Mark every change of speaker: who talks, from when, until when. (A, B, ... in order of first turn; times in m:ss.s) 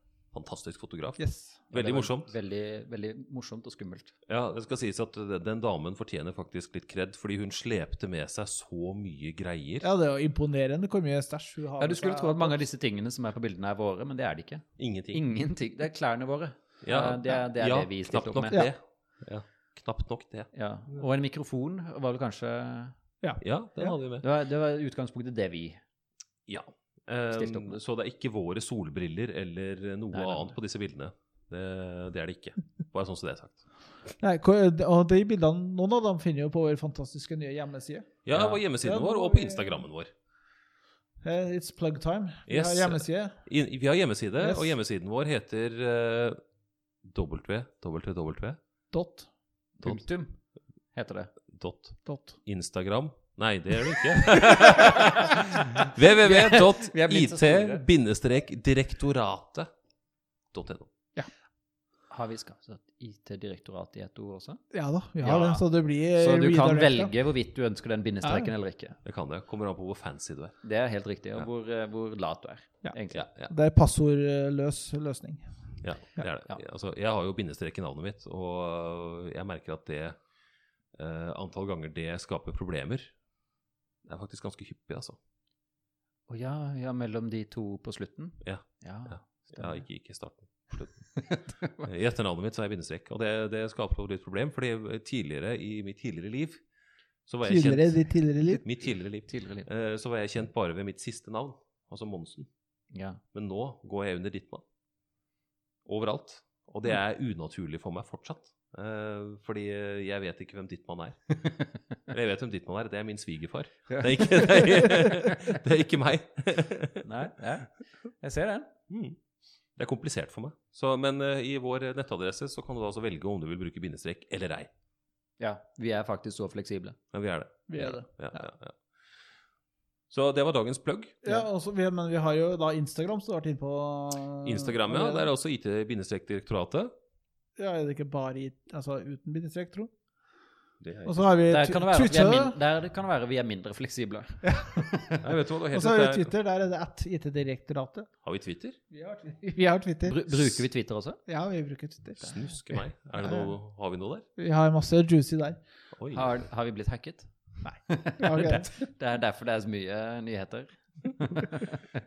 0:00.3-0:02.3 A
0:01.2-0:01.6 B
0:01.7-0:04.2 C
0:04.3-0:09.9 A
0:09.8-0:12.6 B
0:11.8-0:18.7 C
0:14.8-0:15.2 A
0:16.8-0:20.5 A
0:20.5-0:23.0 C
0:23.2-0:24.0 B
0:23.4-0:24.2 A
0:24.2-0:25.8 C
0:26.5-0:33.6 A
0:27.3-0:27.8 C
0:30.1-0:30.6 C
0:34.2-0:38.2 B
0:38.2-0:40.1 A
0:38.3-0:38.6 C
0:38.8-0:39.8 B
0:41.2-0:43.4 B
0:42.5-0:46.4 A
0:44.4-0:44.7 B
0:47.0-0:48.6 A
0:48.9-0:49.3 B
0:49.8-0:50.4 C
0:50.9-0:51.3 C
0:51.5-0:59.7 A
0:52.1-0:52.4 B
0:54.4-0:57.8 C
1:00.5-1:00.9 A
1:02.1-1:04.6 C
1:04.7-1:07.1 B
1:05.2-1:09.0 C
1:08.2-1:08.5 B
1:09.0-1:10.6 A
1:10.6-1:13.3 C
1:13.1-1:13.5 A
1:13.5-1:15.6 B
1:15.8-1:20.2 A
1:20.9-1:23.2 A
1:24.0-1:25.2 A
1:26.3-1:29.8 C
1:28.4-1:36.6 A
1:31.2-1:31.8 C
1:37.3-1:42.5 A
1:37.4-1:38.6 B
1:39.3-1:39.7 C
1:42.9-1:43.2 C
1:43.3-1:44.6 A
1:45.9-1:57.0 A
1:53.9-1:54.9 C
1:57.0-1:58.7 C
1:58.9-1:59.2 A
1:59.8-2:04.7 A
2:05.4-2:07.0 C
2:07.1-2:08.8 A
2:07.7-2:08.4 B
2:10.1-2:11.2 A
2:11.2-2:15.3 B
2:14.4-2:16.9 A
2:17.6-2:19.9 B
2:20.8-2:21.4 A
2:21.1-2:22.6 B
2:21.5-2:25.2 C
2:24.4-2:24.9 B
2:25.2-2:26.3 A
2:25.7-2:28.1 B
2:28.2-2:28.8 A
2:28.9-2:30.6 B
2:30.0-2:31.2 C
2:31.3-2:32.4 B
2:32.2-2:34.2 A
2:33.2-2:33.5 B
2:34.4-2:35.6 B
2:36.0-2:36.4 A
2:36.1-2:37.3 C
2:37.6-2:38.7 B
2:37.9-2:41.9 C